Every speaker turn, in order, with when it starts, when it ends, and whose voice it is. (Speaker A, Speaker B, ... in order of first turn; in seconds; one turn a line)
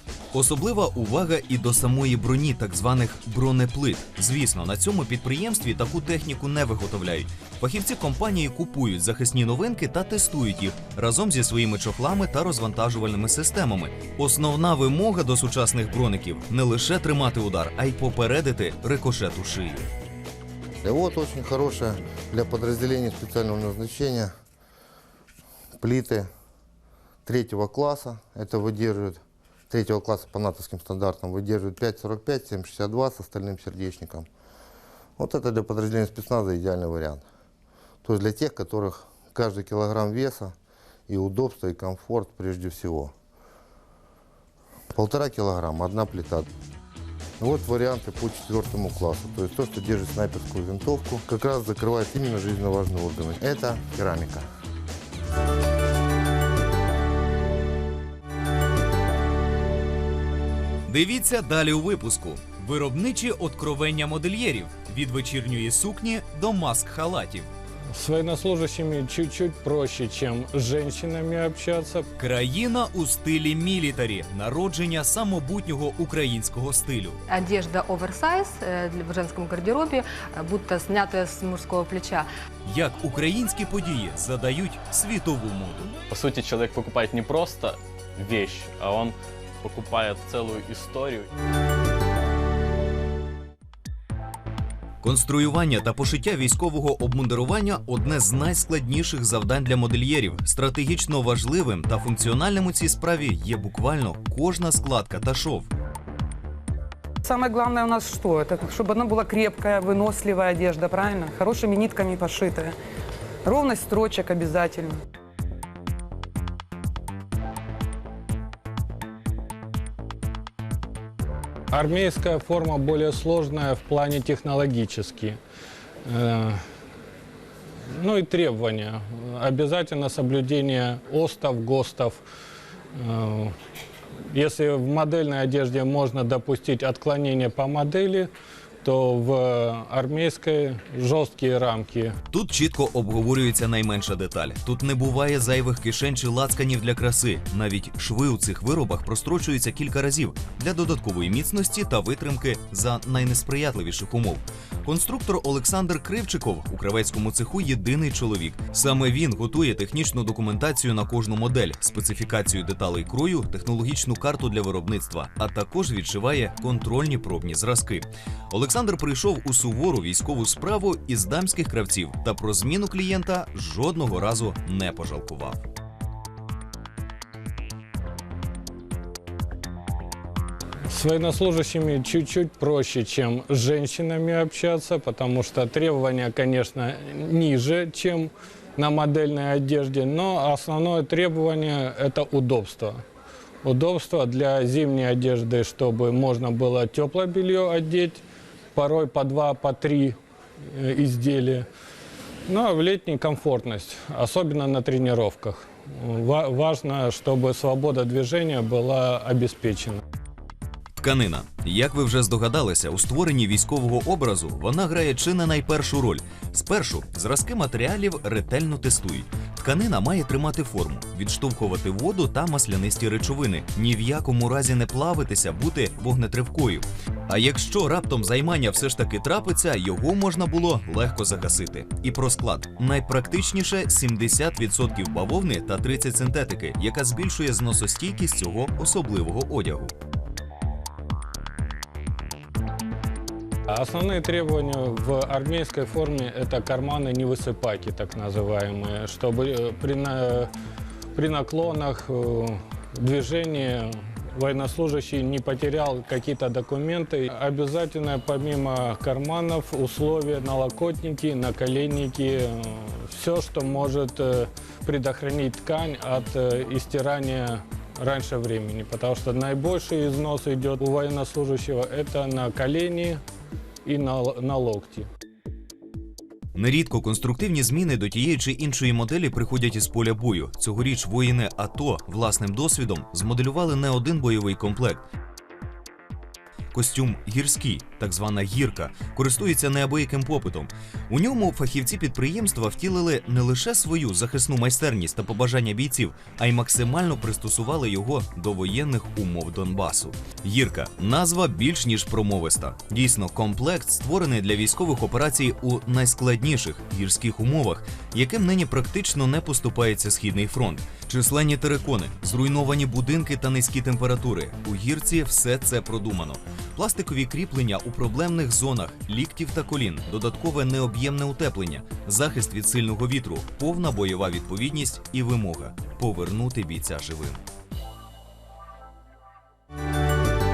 Speaker A: 0.3-19.9
Speaker B: 20.8-24.3
Speaker B: 25.8-26.3
Speaker B: 27.2-34.3
Speaker B: 35.2-37.2
Speaker B: 38.0-40.5
Speaker B: 41.1-43.1
Speaker B: 44.9-46.5
Speaker B: 47.4-54.5
Speaker A: 60.9-67.5
Speaker C: 67.9-72.1
Speaker A: 72.2-77.2
Speaker D: 77.3-82.3
Speaker A: 82.6-85.9
Speaker E: 86.1-91.3
Speaker A: 95.0-105.7
Speaker F: 107.2-112.8
Speaker F: 113.4-115.0
Speaker C: 121.7-125.4
Speaker C: 126.0-126.6
Speaker C: 127.9-132.2
Speaker C: 132.9-133.6
Speaker C: 134.3-138.3
Speaker C: 138.8-142.2
Speaker A: 142.3-175.6
Speaker C: 180.9-193.0
Speaker C: 193.6-198.2
Speaker C: 198.7-201.7
Speaker C: 202.5-210.0
Speaker A: 211.0-239.9
Speaker C: 243.7-250.5
Speaker C: 251.1-273.2
Speaker C: 273.8-275.1
Speaker A: 276.5-285.0
Speaker A: 286.7-327.4